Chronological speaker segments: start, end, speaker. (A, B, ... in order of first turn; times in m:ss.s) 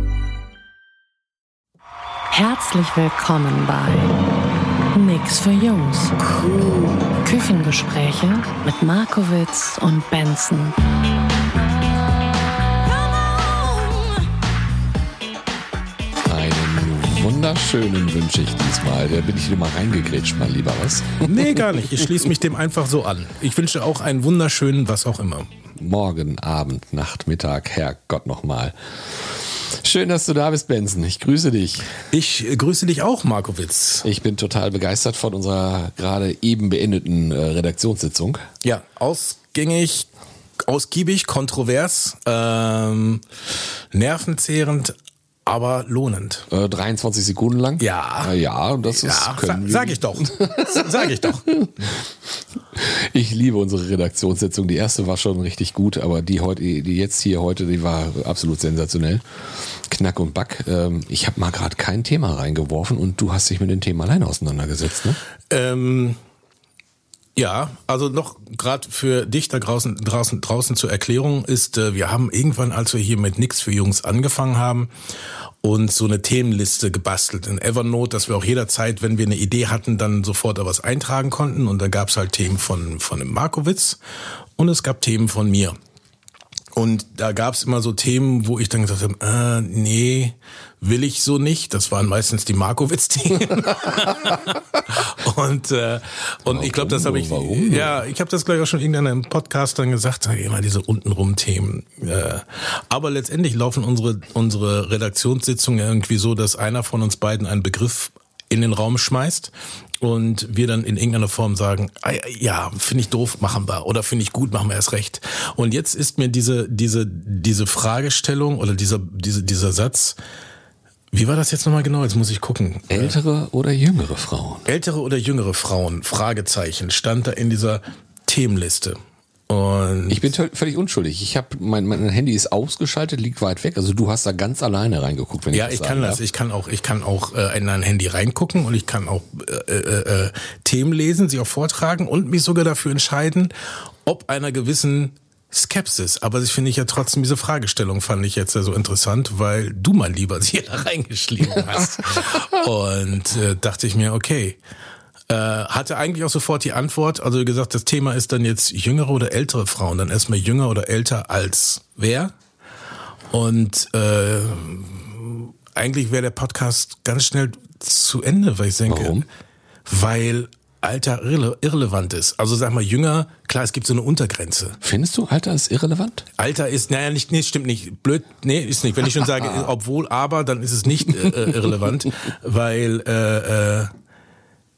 0:02.3-0:04.2 A
0:04.9-0:10.8 A
0:16.2-0:21.6 B
0:21.2-0:25.5 C
0:25.8-0:32.0 B
0:32.1-0:34.1 C
0:34.0-0:38.5 B
0:38.6-0:40.1 C
0:40.6-0:43.2 C
0:43.9-0:46.5 C
0:46.5-0:50.9 B
0:47.8-0:48.4 C
0:48.9-0:51.6 C
0:51.5-0:52.0 B
0:52.7-1:05.2 B
1:05.5-1:06.2 C
1:07.4-1:14.9 C
1:15.6-1:24.0 C
1:24.6-1:25.8 C
1:26.7-2:00.2 C
1:36.5-1:38.0 B
2:01.1-2:03.2 C
2:02.9-2:04.7 B
2:04.7-2:10.3 C
2:10.1-2:16.2 B
2:15.5-2:23.5 C
2:24.0-2:34.6 C
2:35.3-2:42.3 C
2:43.3-2:49.2 C
2:48.9-2:49.3 B
2:49.9-2:54.8 C
2:54.8-2:56.3 B
2:56.4-3:03.9 C